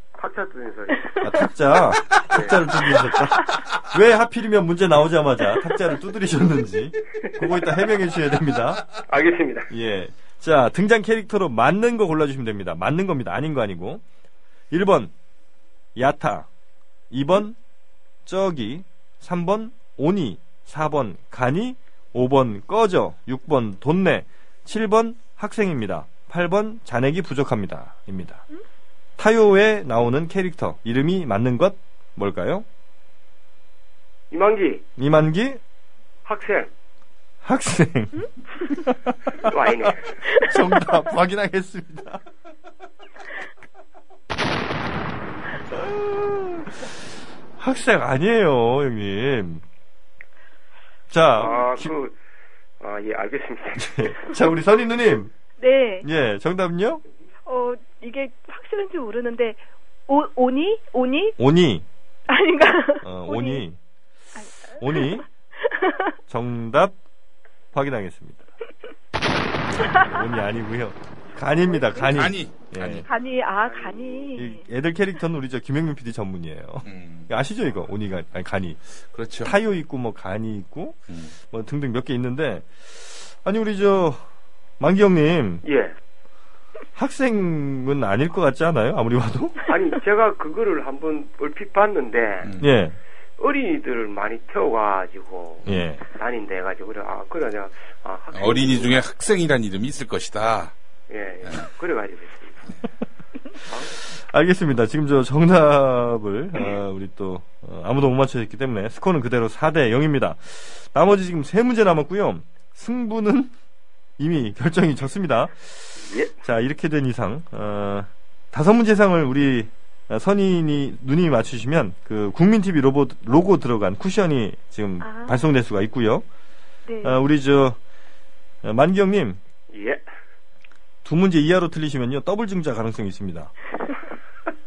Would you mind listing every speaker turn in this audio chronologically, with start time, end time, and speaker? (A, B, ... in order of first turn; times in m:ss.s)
0:00.2-0:01.3 A
0:01.1-0:01.5 B
0:01.2-0:09.0 C
0:02.1-0:02.9 A
0:09.0-0:09.7 A
0:09.7-0:14.0 C
0:14.7-0:15.1 C
0:16.0-0:16.5 C
0:17.1-0:17.6 C
0:18.3-0:28.4 C
0:29.2-0:32.6 C
0:34.3-0:34.8 A
0:35.0-0:35.6 C
0:36.3-0:36.7 A
0:37.4-0:39.5 C
0:39.4-0:40.2 A
0:40.3-0:40.6 B
0:40.3-0:42.2 C
0:45.7-0:46.9 C
0:47.6-0:49.6 C
0:51.1-0:51.9 C
0:51.4-0:52.1 A
0:52.8-0:54.2 A
0:53.8-0:55.3 C
0:55.6-0:56.1 B
0:56.0-0:57.0 C
0:57.5-1:01.4 B
1:01.4-1:01.8 C
1:02.3-1:03.6 B
1:03.0-1:03.8 C
1:04.4-1:06.2 B
1:04.8-1:05.3 C
1:06.3-1:07.0 C
1:07.7-1:08.5 C
1:09.9-1:13.1 C
1:11.7-1:12.1 B
1:12.1-1:13.1 D
1:13.0-1:14.7 B
1:13.7-1:14.4 A
1:14.4-1:18.8 C
1:16.8-1:17.3 D
1:19.1-1:19.5 D
1:19.4-1:24.2 C
1:21.1-1:21.3 D
1:24.8-1:25.6 C
1:25.6-1:25.9 A
1:27.0-1:29.6 C
1:29.7-1:32.5 A
1:32.4-1:32.7 D
1:32.6-1:33.0 C
1:33.4-1:39.0 A
1:35.7-1:36.0 C
1:38.3-1:40.7 D
1:41.1-1:42.6 A
1:43.7-1:44.0 A
1:44.0-1:53.5 C
1:54.2-2:06.2 C
2:05.0-2:05.4 B
2:06.9-2:07.2 B
2:07.0-2:07.8 C
2:08.6-2:09.4 C
2:09.7-2:10.0 A
2:11.0-2:13.5 C